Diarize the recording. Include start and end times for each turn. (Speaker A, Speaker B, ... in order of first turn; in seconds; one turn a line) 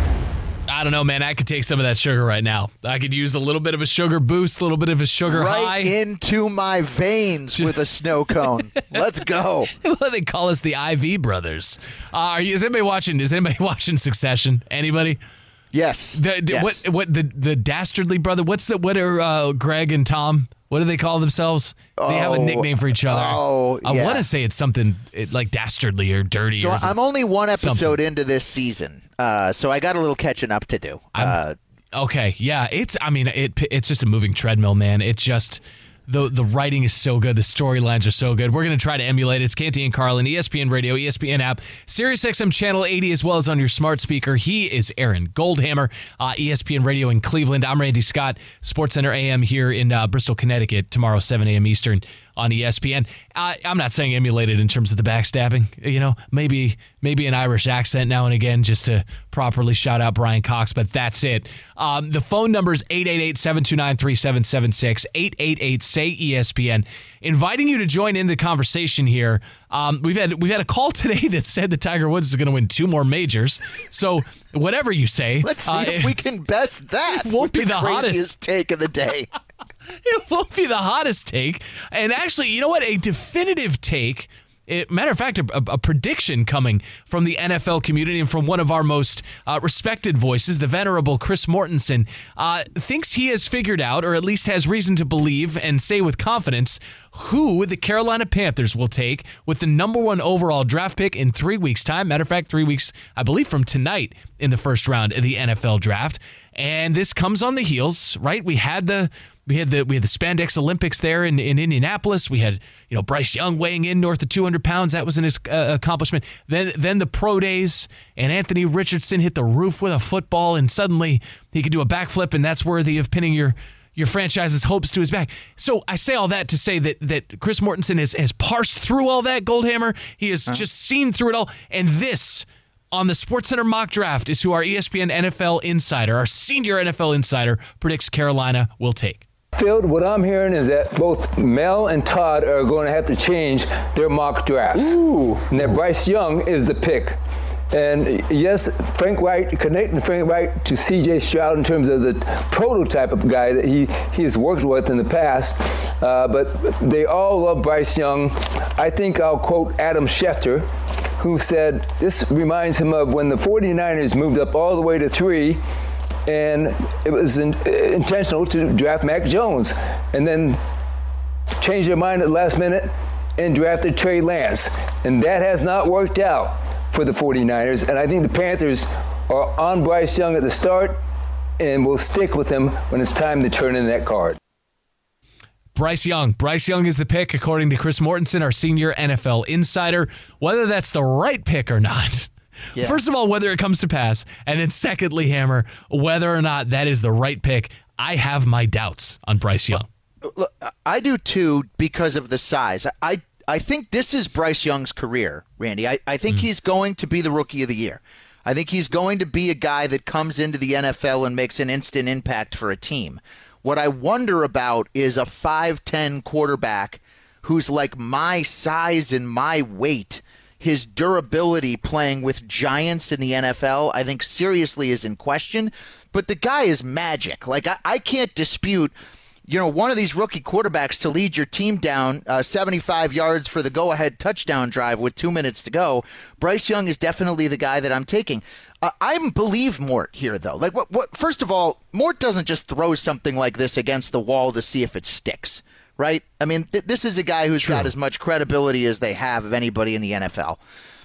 Speaker A: 0.7-5.9
Speaker B: 5.3-9.7
Speaker A: 9.8-15.2
Speaker B: 15.7-16.8
Speaker A: 16.1-27.0
Speaker B: 22.0-24.2
Speaker B: 26.6-31.6
Speaker A: 27.5-28.0
Speaker A: 31.9-76.2
Speaker B: 75.4-79.3
Speaker A: 77.2-78.3
Speaker A: 80.0-139.2
Speaker C: 139.5-147.2
Speaker C: 147.7-165.6
Speaker C: 166.3-170.6
Speaker C: 171.6-181.0
Speaker C: 181.6-184.4
Speaker A: 185.8-199.9
Speaker B: 200.2-228.9
Speaker B: 229.5-250.6
Speaker A: 247.6-247.9